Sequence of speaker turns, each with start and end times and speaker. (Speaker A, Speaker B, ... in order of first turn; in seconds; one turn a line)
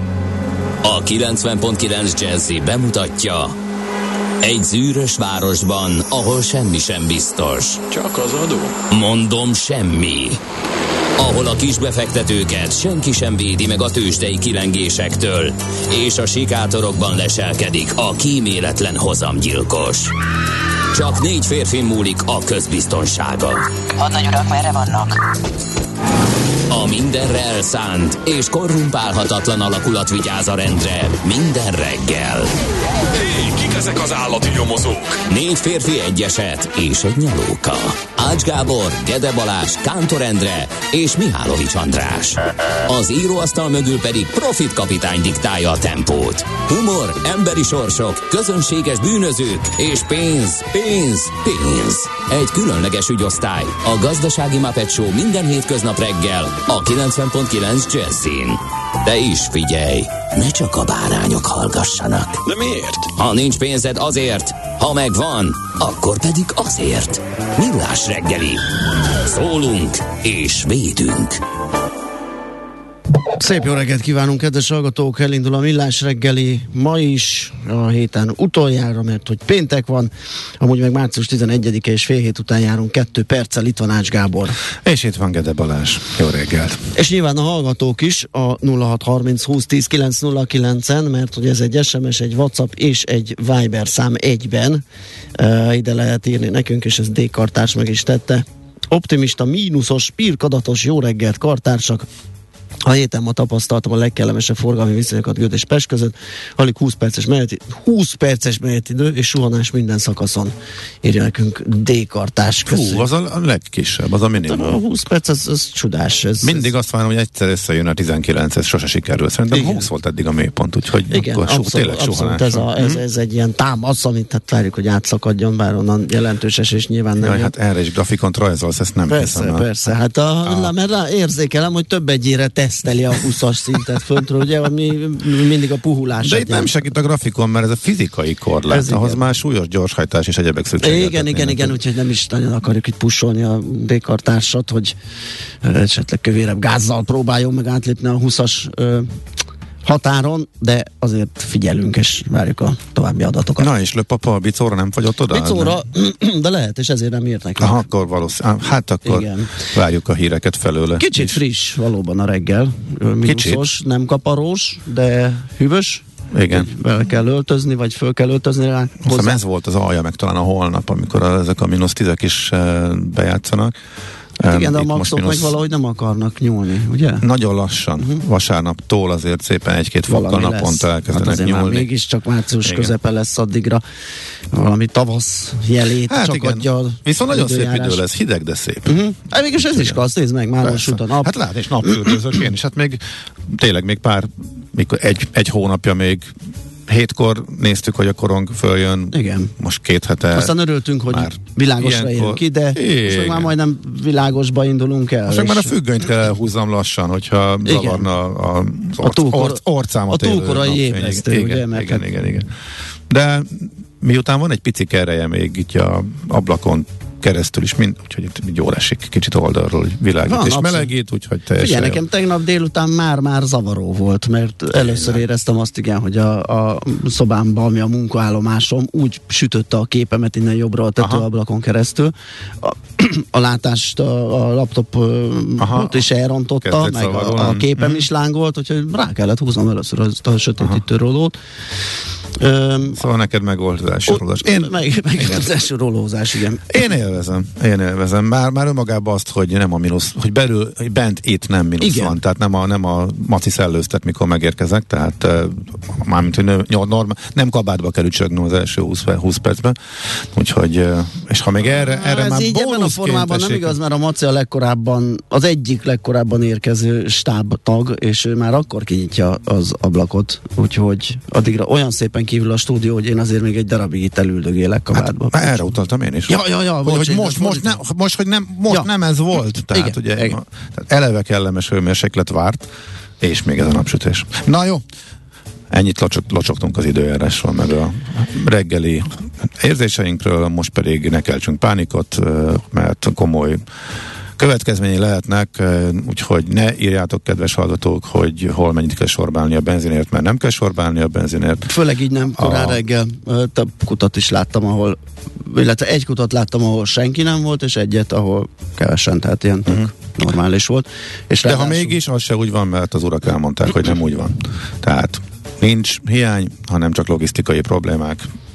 Speaker A: 0.8-3.5
Speaker A: 4.4-7.8
Speaker B: 7.9-8.8
Speaker A: 8.9-10.4
Speaker A: 11.2-20.1
Speaker A: 20.9-25.2
Speaker A: 26.7-32.5
Speaker B: 33.1-35.2
Speaker A: 35.2-62.4
Speaker B: 62.5-63.1
Speaker A: 63.1-68.6
Speaker A: 69.2-71.4
Speaker C: 73.4-84.5
Speaker D: 84.8-86.8
Speaker C: 86.9-94.8
Speaker C: 95.3-102.0
Speaker C: 102.8-113.1
Speaker D: 112.7-114.8
Speaker C: 114.4-116.7
Speaker D: 116.4-123.0
Speaker C: 119.5-119.9
Speaker C: 121.1-127.5
Speaker D: 127.2-129.6
Speaker C: 129.1-136.7
Speaker D: 130.4-130.7
Speaker D: 136.2-141.8
Speaker C: 138.7-139.2
Speaker C: 140.8-144.9
Speaker C: 145.6-149.1
Speaker C: 149.8-153.7
Speaker D: 153.6-155.8
Speaker C: 155.3-157.8
Speaker D: 157.6-161.4
Speaker C: 159.0-159.7
Speaker C: 161.0-169.4
Speaker D: 163.2-163.6
Speaker D: 166.3-166.7
Speaker D: 169.0-173.7
Speaker D: 174.4-175.5
Speaker C: 174.4-177.2
Speaker D: 177.2-181.9
Speaker C: 180.1-183.8
Speaker D: 182.6-182.9
Speaker C: 184.5-188.0
Speaker D: 186.1-189.0
Speaker C: 188.8-191.3
Speaker D: 189.7-190.0
Speaker D: 190.6-196.3
Speaker C: 191.8-192.2
Speaker D: 196.9-200.5
Speaker C: 199.1-199.5
Speaker C: 200.3-205.7
Speaker D: 201.1-203.5
Speaker D: 205.2-212.5
Speaker C: 207.6-208.1
Speaker C: 209.0-212.1
Speaker D: 213.1-222.0
Speaker C: 220.2-220.9
Speaker C: 221.6-243.0
Speaker D: 224.7-225.2
Speaker D: 231.0-231.2
Speaker D: 235.6-236.0
Speaker D: 236.6-238.1
Speaker D: 242.9-245.5
Speaker C: 244.1-246.8
Speaker D: 246.7-263.8
Speaker C: 251.8-252.2
Speaker C: 261.6-275.6
Speaker D: 274.9-282.7
Speaker C: 276.3-277.8
Speaker C: 279.7-280.4
Speaker D: 283.2-284.8
Speaker D: 285.7-293.6
Speaker D: 294.4-301.7
Speaker C: 301.7-312.0
Speaker D: 302.4-302.8
Speaker D: 311.4-318.2